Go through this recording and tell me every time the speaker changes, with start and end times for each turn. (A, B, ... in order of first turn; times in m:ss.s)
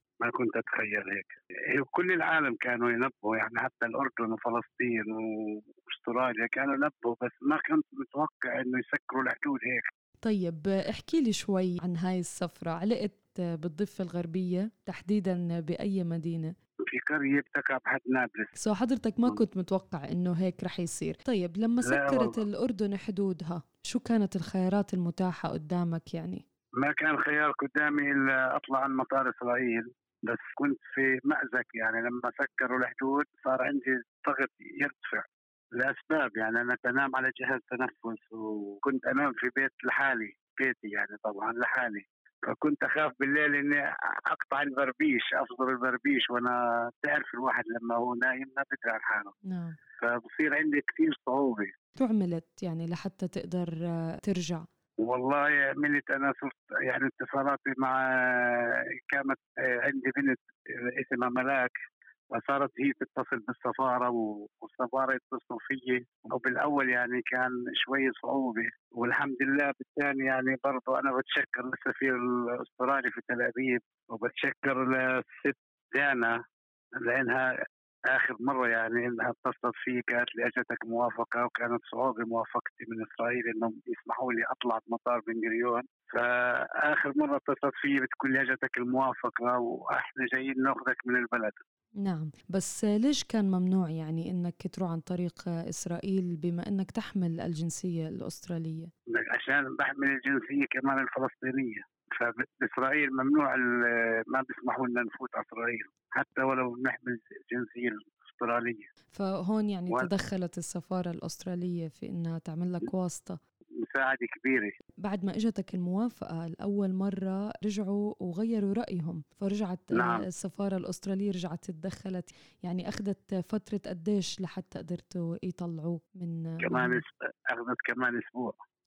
0:00.2-0:09.9 A
0:10.2-0:16.5 B
0:16.9-0:18.6 A
0:18.6-0:26.4 B
0:21.8-0:22.4 A
0:26.8-0:35.3 A
0:35.8-0:49.4 A
0:49.5-0:49.8 B
0:50.0-0:51.7 A
0:52.0-0:54.7 B
0:55.0-1:01.7 A
1:02.3-1:16.4 A
1:17.0-1:17.5 A
1:18.1-1:31.6 A
1:32.0-1:38.9 B
1:39.1-1:48.9 A
1:49.1-1:53.4 B
1:53.8-1:54.7 A
1:55.0-2:07.0 B
2:00.0-2:00.3 A
2:06.6-2:08.6 A